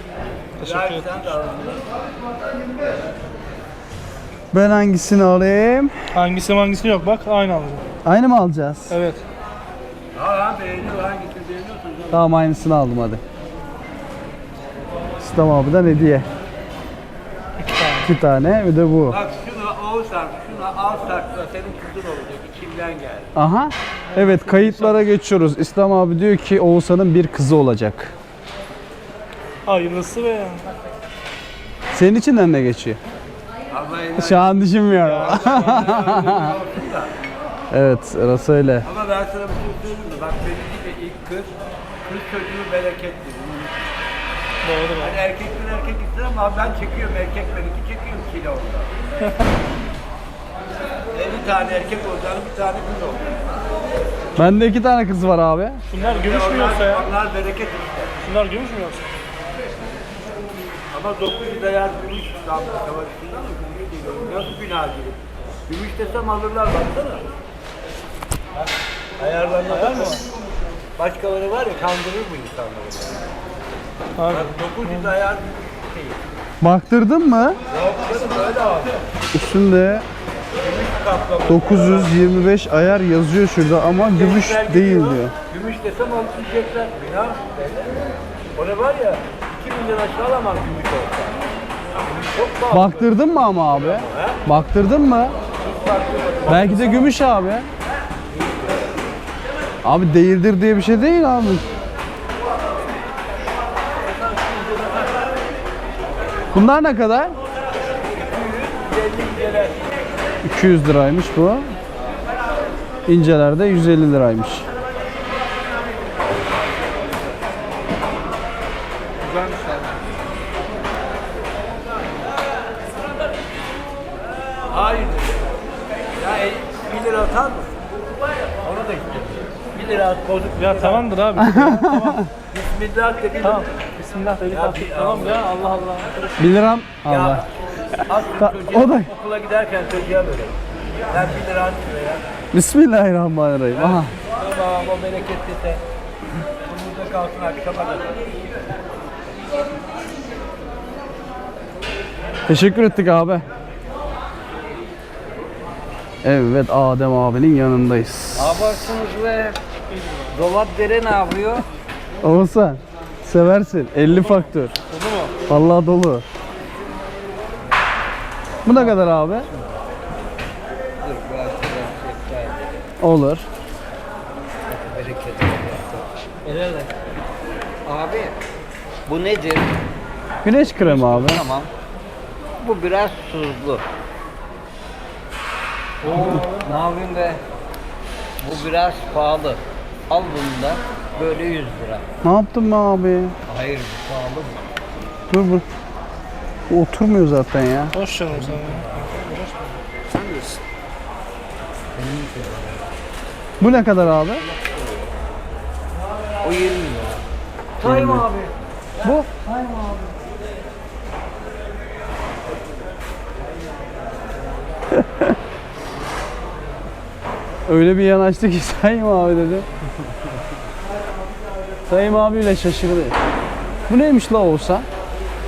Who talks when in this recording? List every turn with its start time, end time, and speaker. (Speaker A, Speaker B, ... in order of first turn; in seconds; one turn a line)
Speaker A: 0.6-1.4
Speaker B: 0.6-1.9
Speaker C: 4.5-6.0
Speaker A: 6.1-7.8
Speaker C: 8.0-8.9
Speaker A: 8.9-9.2
Speaker B: 10.1-12.2
Speaker C: 12.1-13.2
Speaker C: 15.2-16.3
Speaker A: 17.6-18.1
Speaker C: 18.0-19.2
Speaker B: 19.1-23.3
Speaker C: 23.4-28.1
Speaker A: 24.1-25.0
Speaker A: 29.6-30.7
Speaker C: 31.9-33.0
Speaker B: 33.7-37.1
Speaker C: 34.2-36.6
Speaker A: 35.0-35.7
Speaker C: 37.7-38.9
Speaker B: 38.9-44.0
Speaker A: 44.6-45.2
Speaker B: 45.0-48.9
Speaker B: 51.1-53.4
Speaker C: 54.4-55.8
Speaker A: 55.9-57.1
Speaker B: 56.0-58.1
Speaker A: 58.2-59.1
Speaker B: 60.9-67.3
Speaker B: 68.6-70.2
Speaker A: 69.7-70.2
Speaker B: 71.0-73.3
Speaker A: 74.2-75.1
Speaker B: 74.3-76.2
Speaker C: 76.6-77.6
Speaker B: 77.7-79.0
Speaker C: 79.3-80.1
Speaker B: 80.6-82.2
Speaker C: 81.5-85.3
Speaker B: 84.1-91.4
Speaker B: 92.0-93.1
Speaker C: 92.7-95.4
Speaker B: 93.7-94.4
Speaker B: 95.6-97.1
Speaker C: 96.5-97.7
Speaker B: 98.3-99.0
Speaker C: 99.8-101.7
Speaker B: 104.0-105.3
Speaker C: 106.5-107.3
Speaker B: 108.2-110.1
Speaker C: 110.4-111.7
Speaker C: 113.1-114.7
Speaker A: 119.2-120.0
Speaker B: 124.6-125.5
Speaker B: 126.1-127.8
Speaker B: 128.4-131.1
Speaker A: 130.6-132.2
Speaker C: 131.4-132.3
Speaker B: 132.5-133.7
Speaker A: 133.4-136.6
Speaker B: 134.5-135.5
Speaker C: 136.4-137.4
Speaker B: 137.1-137.5
Speaker B: 138.0-142.2
Speaker C: 138.3-139.1
Speaker C: 142.5-144.1
Speaker B: 143.7-145.8
Speaker B: 146.7-148.5
Speaker C: 152.5-153.4
Speaker C: 156.2-158.9
Speaker D: 158.3-159.6
Speaker A: 159.9-160.4
Speaker D: 160.3-161.7
Speaker C: 162.2-164.8
Speaker A: 164.1-165.4
Speaker C: 165.5-166.2
Speaker C: 168.7-169.5
Speaker D: 171.0-172.7
Speaker C: 173.0-173.5
Speaker D: 174.7-176.9
Speaker D: 177.8-178.3
Speaker D: 179.1-179.7
Speaker C: 180.4-181.4
Speaker D: 180.8-181.7
Speaker D: 182.6-183.8
Speaker A: 186.0-186.7
Speaker D: 186.0-187.4
Speaker D: 188.4-192.0
Speaker C: 192.2-193.4
Speaker D: 193.5-194.6
Speaker C: 195.3-195.7
Speaker C: 196.7-197.9
Speaker A: 197.9-199.8
Speaker D: 198.3-199.0
Speaker D: 200.1-200.6
Speaker D: 201.9-202.9
Speaker C: 203.6-204.4
Speaker D: 206.4-207.2
Speaker D: 207.8-208.5
Speaker C: 207.8-208.3
Speaker C: 209.0-209.3
Speaker D: 209.4-210.1
Speaker C: 214.9-215.3
Speaker C: 217.7-219.7
Speaker C: 221.9-223.2
Speaker C: 223.9-224.9